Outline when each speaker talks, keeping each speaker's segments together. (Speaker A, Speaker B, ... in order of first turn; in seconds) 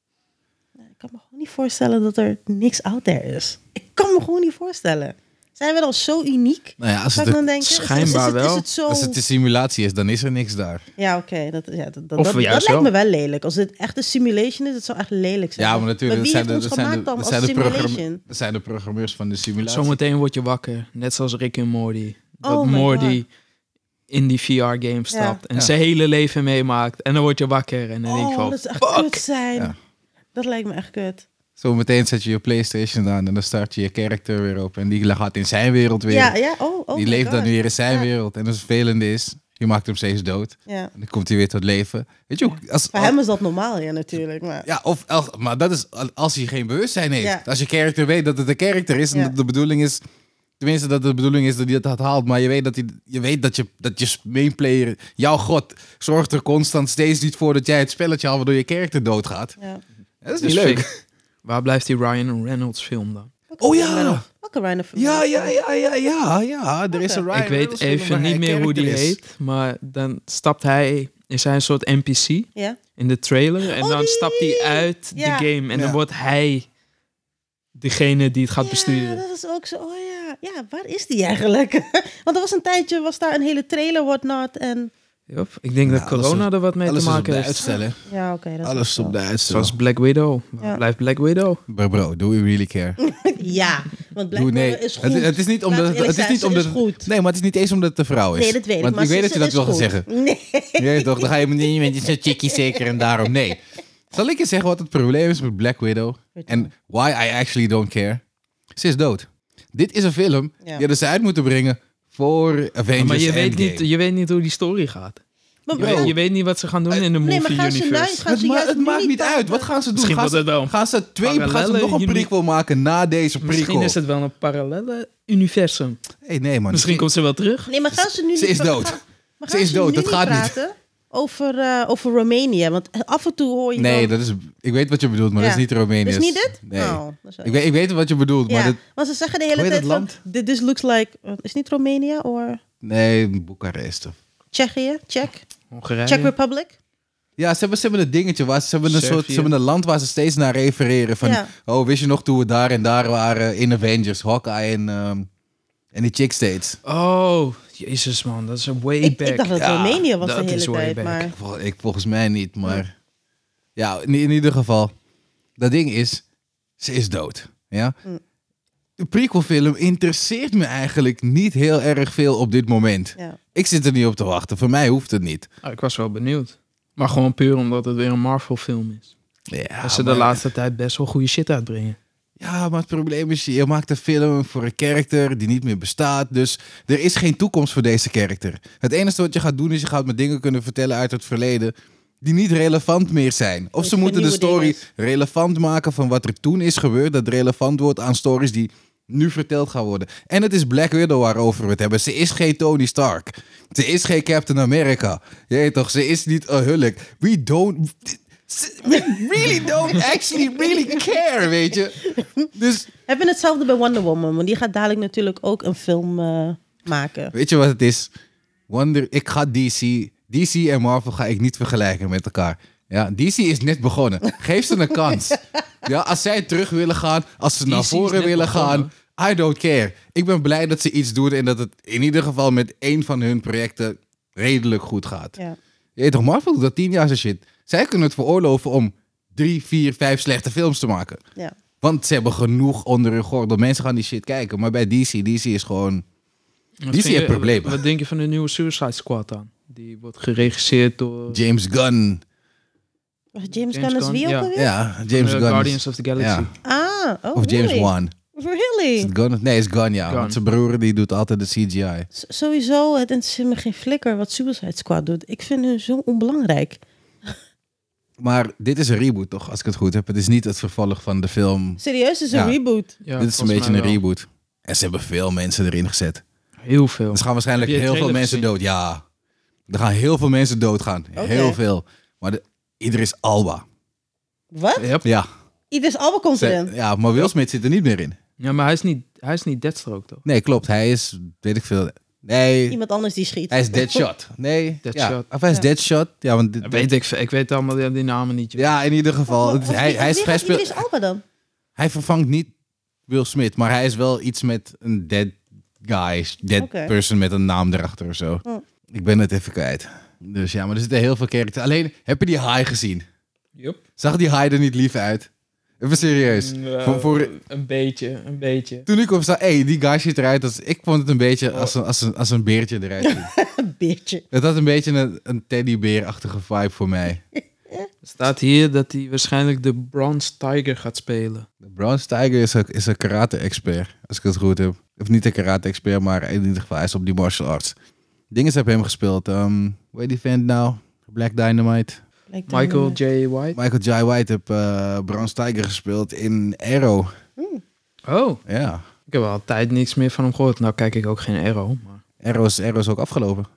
Speaker A: 0.8-9.2, 11.0-18.2, 22.4-23.2, 25.1-25.4, 28.1-29.7, 30.3-31.2, 36.1-38.1, 42.9-44.6, 63.5-65.5, 66.9-67.2, 73.7-75.5, 78.6-84.9, 87.7-89.1, 93.0-97.1, 98.3-102.8, 106.3-106.7, 115.7-116.2, 117.2-119.7, 127.7-134.1, 135.4-137.5, 138.5-142.6, 144.5-145.4, 146.1-146.7, 151.2-151.5, 159.0-161.3, 193.8-194.8, 210.5-210.9, 212.0-212.5, 213.1-217.3, 253.3-254.7, 256.6-259.1, 262.1-267.3, 271.8-272.9, 281.1-281.6, 284.5-284.9, 285.7-286.7, 292.7-294.0, 299.3-301.2, 306.6-306.9, 323.0-324.2, 342.3-343.0, 347.4-347.6
Speaker B: 6.8-8.1, 8.9-10.8, 15.6-20.0, 31.6-36.3, 36.9-43.1, 44.6-50.0, 50.6-59.5, 60.2-60.9, 63.6-64.2, 64.9-69.2, 85.8-88.0, 88.6-89.7, 91.7-93.0, 94.3-100.1, 100.8-103.6, 104.1-108.2, 108.8-113.9, 115.8-116.2, 118.2-124.0, 126.2-127.0, 127.9-130.5, 133.8-138.8, 139.5-140.2, 142.8-144.2, 147.4-155.3, 155.9-156.8, 159.6-160.0, 161.3-162.9, 163.8-164.9, 165.6-166.2, 166.8-167.9, 169.0-175.5, 179.5-180.4, 182.4-212.0, 212.5-212.9, 217.3-218.1, 218.7-235.4, 236.0-241.2, 241.8-246.0, 246.9-247.8, 251.3-252.2, 254.5-256.5, 257.4-258.1, 259.0-262.1, 268.2-271.8, 272.3-272.6, 273.2-276.2, 277.1-279.0, 279.7-283.6, 286.4-288.2, 290.2-292.8, 293.5-296.9, 298.6-300.8, 301.8-302.5, 303.1-313.1, 314.0-315.3, 315.8-317.3, 318.9-323.3, 324.3-327.2, 331.6-337.7, 338.3-342.0, 343.5-347.1, 348.5-348.8, 352.2-353.5
Speaker C: 7.6-8.6, 12.2-12.9, 19.6-23.3, 24.1-29.2, 60.4-60.9, 61.4-63.3, 67.3-76.7, 77.8-79.2, 85.3-87.7, 89.5-91.6, 113.0-115.2, 115.7-118.2, 119.9-122.3, 123.4-126.0, 126.7-127.7, 145.7-146.3, 148.8-149.5, 156.8-159.6, 160.2-161.3, 175.6-179.1, 179.8-182.0, 227.7-228.9, 246.8-251.4, 253.7-254.5, 255.1-256.5, 260.1-260.4, 273.0-274.0, 276.6-278.5, 284.8-285.1, 288.4-290.2, 294.8-295.2, 296.6-298.7, 313.6-313.8, 316.2-318.9, 328.0-331.5, 342.5-343.6, 348.1-348.4, 349.1-352.0